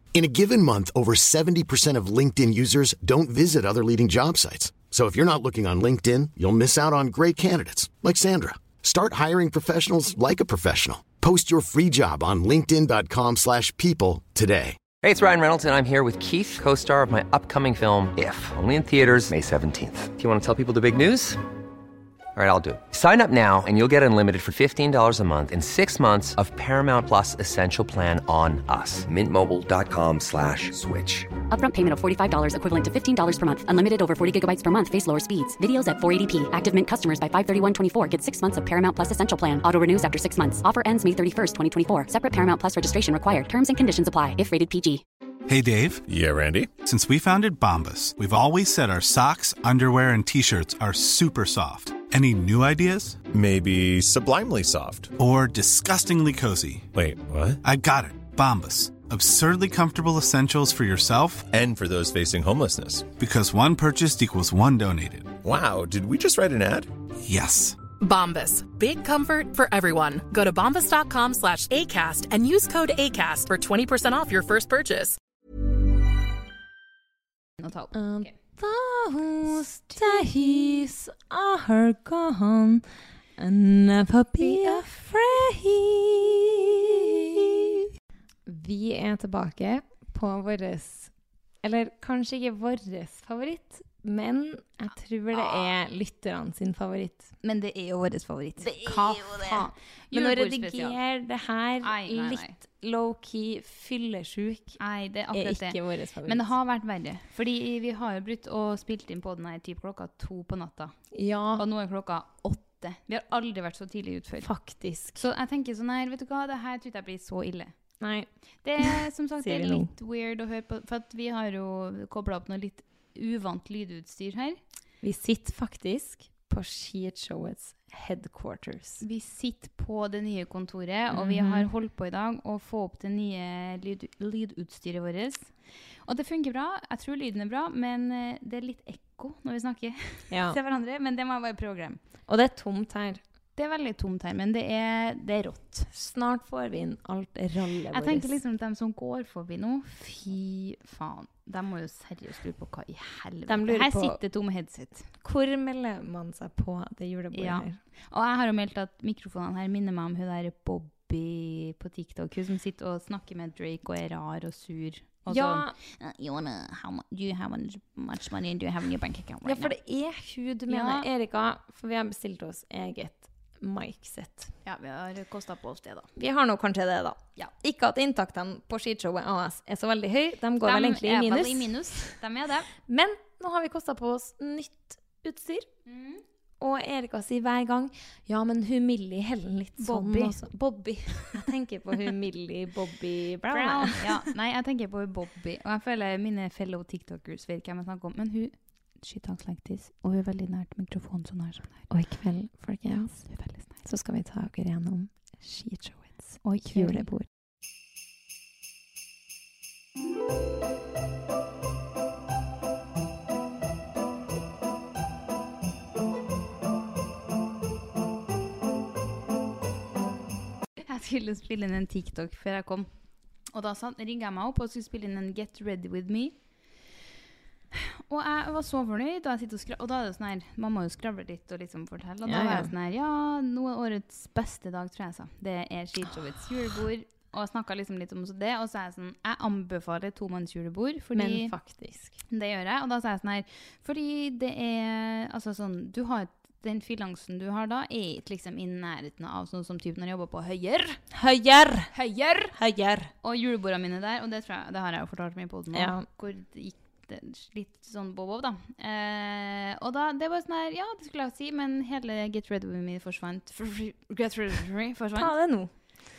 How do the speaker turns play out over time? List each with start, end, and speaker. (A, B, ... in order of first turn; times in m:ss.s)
0:00.1-0:14.8 A
0:15.0-0:21.4 B
0:22.3-0:31.3 B
0:31.5-0:45.0 C
0:45.5-0:46.0 D
0:46.1-0:46.7 E
0:46.8-0:53.3 D
0:53.3-0:55.1 E
0:55.2-0:56.9 D
0:56.9-0:57.6 E
0:57.6-1:01.5 D
1:01.5-1:03.1 E
1:03.1-1:05.4 D
1:05.4-1:06.9 E
1:07.2-1:07.8 D
1:08.0-1:15.2 F
1:17.6-1:18.3 G
1:17.9-1:22.8 H
1:23.4-1:27.8 H
1:24.4-1:24.8 G
1:28.4-1:37.3 H
1:35.4-1:35.7 G
1:37.4-1:41.0 G
1:38.6-1:44.8 H
1:41.8-1:42.6 G
1:44.8-1:50.9 G
1:45.3-1:46.5 H
1:51.1-1:51.6 H
1:51.6-1:54.5 G
1:54.4-1:55.2 H
1:55.1-1:57.7 G
1:58.0-1:58.3 H
1:58.6-2:04.6 G
1:58.8-1:59.9 H
2:05.0-2:09.0 H
2:09.0-2:15.5 G
2:11.1-2:11.7 H
2:16.0-2:22.0 G
2:20.3-2:20.6 H
2:22.3-2:23.2 H
2:23.6-2:25.9 G
2:25.9-2:28.4 H
2:27.9-2:35.1 G
2:33.5-2:34.2 H
2:35.2-2:37.8 H
2:37.3-2:49.7 G
2:45.3-2:45.7 H
2:49.4-2:54.5 H
2:50.7-2:51.1 G
2:54.6-2:56.1 G
2:56.2-3:02.1 H
3:00.6-3:02.7 G
3:02.8-3:05.7 H
3:05.8-3:06.2 G
3:06.6-3:14.2 H
3:09.8-3:10.4 G
3:13.5-3:21.9 G
3:21.9-3:23.3 H
3:23.3-3:23.8 G
3:23.8-3:27.3 H
3:26.4-3:27.1 G
3:40.8-3:42.9 G
3:43.5-3:46.4 G
3:47.7-4:01.5 G
3:52.2-3:52.7 H
4:01.1-4:02.2 H
4:02.3-4:11.0 G
4:11.1-4:11.9 H
4:11.9-4:12.5 G
4:12.5-4:13.1 H
4:13.2-4:25.3 G
4:15.7-4:16.0 H
4:25.1-4:25.7 H